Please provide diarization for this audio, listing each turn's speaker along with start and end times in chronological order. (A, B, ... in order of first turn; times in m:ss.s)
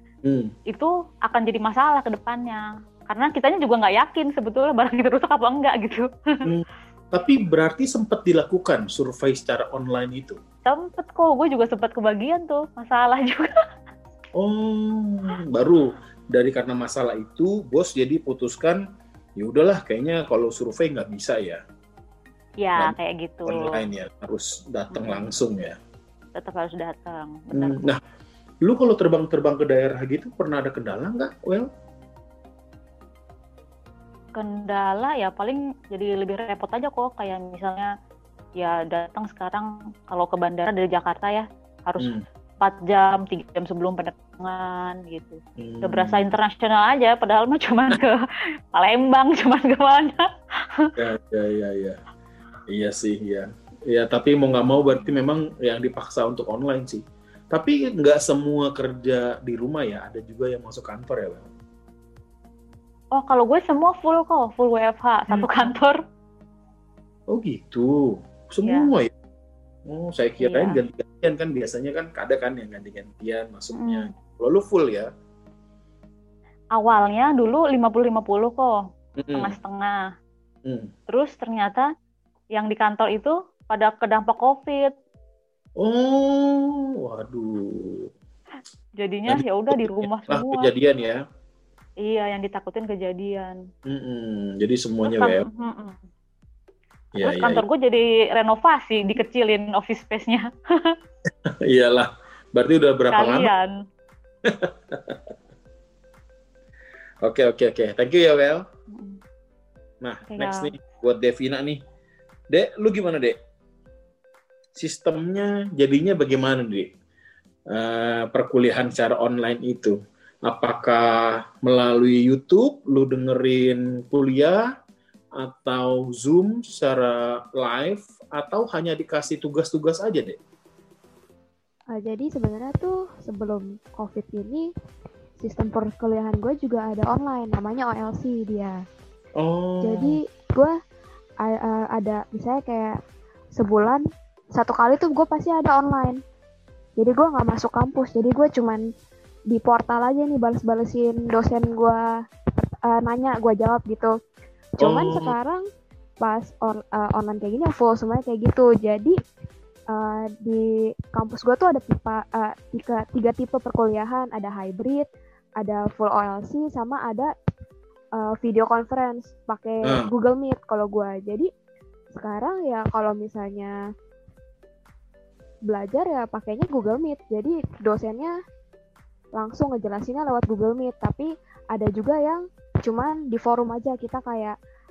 0:00.2-0:00.5 A
0:00.7-0:06.1 B
0:06.4-0:10.4 A
0:10.6-0:13.5 B
0:14.4-0:18.8 A
0:19.4-0:21.6 A
0:22.6-0:23.8 B
0:23.4-0:25.8 A
0:24.9-0:25.2 B
0:26.4-0:27.8 B
0:27.5-0:28.0 A
0:28.6-0:31.7 A
0:34.3-0:37.9 B
0:38.6-0:48.2 B
0:45.6-0:46.2 A
0:48.7-0:50.2 B
0:51.0-0:52.0 A
0:52.7-1:01.5 A
1:03.1-1:06.0 B
1:05.3-1:05.7 A
1:07.3-1:09.1 A
1:09.9-1:15.1 A
1:10.4-1:10.8 B
1:13.8-1:14.1 B
1:16.8-1:18.8 B
1:19.2-1:19.5 A
1:19.3-1:20.0 B
1:20.6-1:20.9 A
1:21.1-1:21.9 B
1:22.5-1:24.9 B
1:25.8-1:28.1 A
1:29.0-1:30.7 B
1:29.3-1:31.2 A
1:32.0-1:33.6 B
1:33.8-1:35.4 A
1:35.0-1:36.0 B
1:37.2-1:37.6 A
1:37.2-1:41.0 B
1:41.5-1:43.5 A
1:43.1-1:43.7 B
1:44.5-1:45.2 A
1:47.2-1:48.6 A
1:48.9-1:49.2 B
1:50.0-1:51.8 A
1:50.3-1:50.7 B
1:52.5-1:53.4 A
1:54.7-1:56.9 A
1:57.7-2:04.6 A
2:05.4-2:10.4 A
2:11.9-2:14.7 C
2:15.4-2:18.8 C
2:19.4-2:20.2 A
2:19.8-2:20.7 C
2:21.4-2:22.9 C
2:23.6-2:26.2 C
2:27.0-2:28.8 C
2:29.5-2:32.0 C
2:32.8-2:34.1 C
2:34.8-2:35.6 C
2:34.8-2:35.3 A
2:36.2-2:39.2 C
2:39.9-2:45.1 C
2:45.6-2:47.3 C
2:48.2-2:51.5 C
2:52.1-2:53.7 C
2:55.7-2:58.3 C
2:59.4-3:04.5 C